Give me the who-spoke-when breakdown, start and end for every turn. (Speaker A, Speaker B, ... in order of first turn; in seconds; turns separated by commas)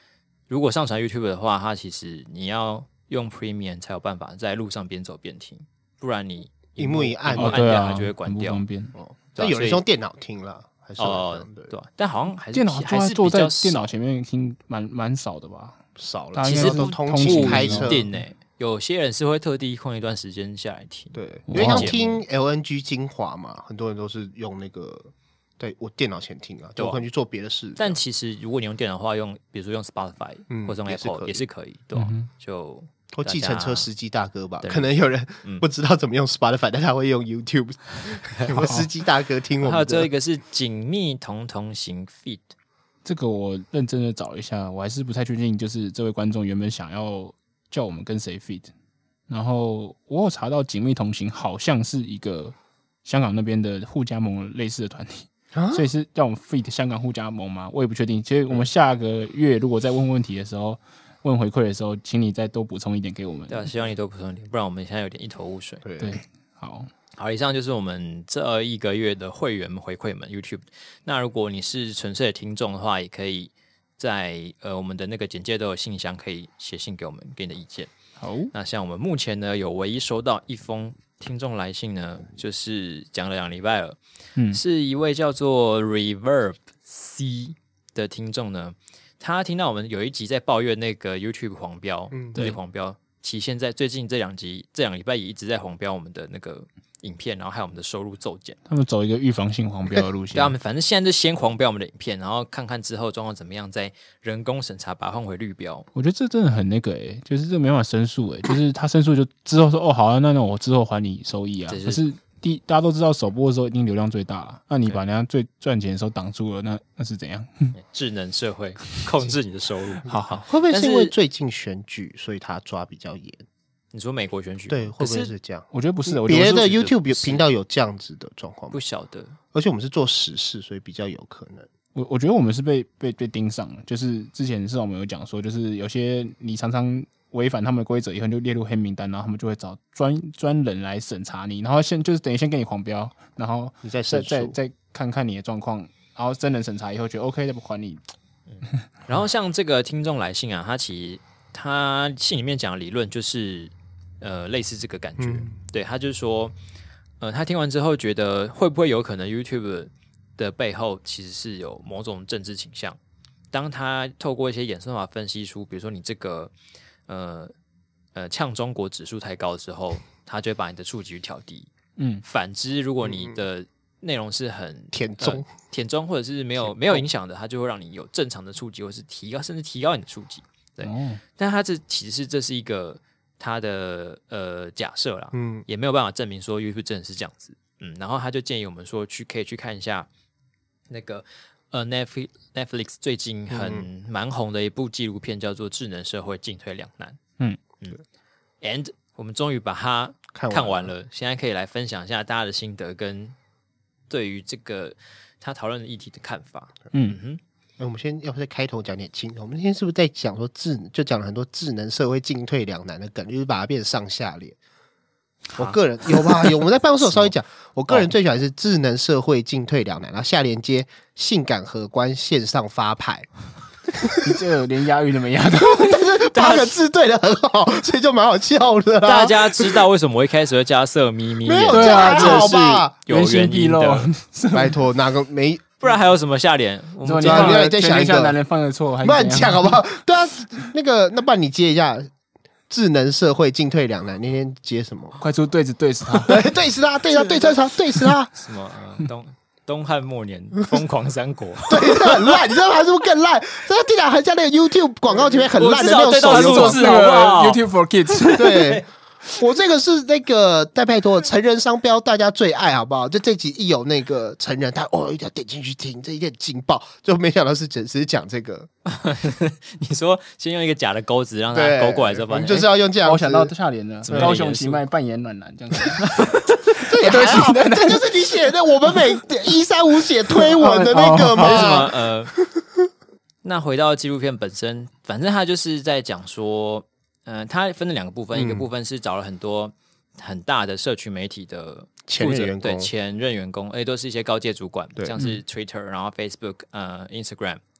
Speaker A: 0.5-8.6, Speaker B: 6.8-7.7, Speaker C: 7.3-8.9, Speaker B: 8.9-11.7, Speaker A: 9.3-9.8, Speaker A: 11.0-13.9, Speaker C: 12.5-15.8, Speaker B: 15.9-18.1, Speaker C: 16.3-18.1, Speaker A: 16.4-22.2, Speaker B: 21.1-28.0, Speaker C: 21.5-21.9, Speaker A: 26.8-27.0, Speaker A: 27.8-33.9, Speaker B: 30.5-31.4, Speaker C: 31.9-32.3, Speaker B: 33.1-40.1, Speaker A: 34.6-35.6, Speaker A: 38.4-38.7, Speaker C: 38.6-38.9, Speaker A: 39.6-42.5, Speaker C: 43.0-48.7, Speaker C: 49.3-63.7, Speaker B: 55.5-55.9, Speaker A: 63.5-65.8, Speaker B: 65.8-66.2, Speaker C: 66.0-66.9, Speaker A: 67.2-77.9, Speaker C: 78.2-78.5, Speaker A: 78.5-84.0, Speaker A: 84.5-98.6, Speaker B: 92.1-92.4, Speaker C: 98.7-100.5, Speaker A: 100.3-105.9, Speaker C: 105.9-117.7, Speaker A: 111.7-112.0, Speaker A: 117.7-121.1, Speaker C: 120.1-120.4, Speaker B: 120.5-123.4, Speaker A: 123.9-125.3, Speaker B: 124.7-128.8, Speaker C: 125.7-127.0, Speaker A: 127.1-127.4, Speaker A: 128.7-129.3, Speaker B: 129.5-131.7, Speaker C: 131.9-148.0, Speaker B: 143.8-144.6, Speaker A: 148.5-156.5, Speaker B: 155.2-155.5, Speaker A: 157.2-163.0, Speaker A: 163.5-166.5, Speaker A: 167.1-167.5, Speaker A: 168.1-171.7, Speaker C: 172.0-172.2, Speaker A: 172.2-190.1, Speaker B: 173.0-173.4, Speaker B: 174.9-175.5, Speaker B: 176.7-177.0, Speaker C: 180.8-181.2, Speaker B: 185.3-185.6, Speaker A: 190.9-197.2, Speaker B: 193.5-193.8, Speaker A: 198.6-203.3, Speaker B: 200.3-200.9, Speaker A: 204.1-207.4, Speaker C: 206.9-207.2, Speaker B: 207.8-214.6, Speaker B: 215.6-223.3, Speaker B: 224.0-224.4, Speaker C: 224.2-226.2, Speaker B: 225.6-229.8, Speaker A: 226.3-226.7, Speaker A: 229.0-234.1, Speaker B: 231.4-232.9, Speaker C: 231.7-234.8, Speaker B: 234.5-235.8, Speaker A: 235.8-237.6, Speaker C: 237.0-239.9, Speaker B: 237.2-238.4, Speaker B: 239.0-242.1, Speaker B: 242.7-245.2, Speaker C: 245.2-246.5, Speaker B: 246.2-248.3, Speaker A: 248.3-252.4, Speaker B: 251.7-256.9, Speaker A: 255.5-257.6, Speaker C: 256.2-258.8, Speaker B: 258.3-268.7, Speaker A: 258.6-258.8, Speaker A: 268.9-272.7, Speaker B: 271.5-273.5, Speaker C: 273.0-279.2, Speaker A: 274.0-274.8, Speaker B: 274.1-274.4, Speaker B: 276.7-282.6, Speaker C: 280.3-281.9, Speaker A: 281.4-282.3, Speaker A: 283.4-297.6, Speaker B: 288.3-288.7, Speaker B: 292.1-292.9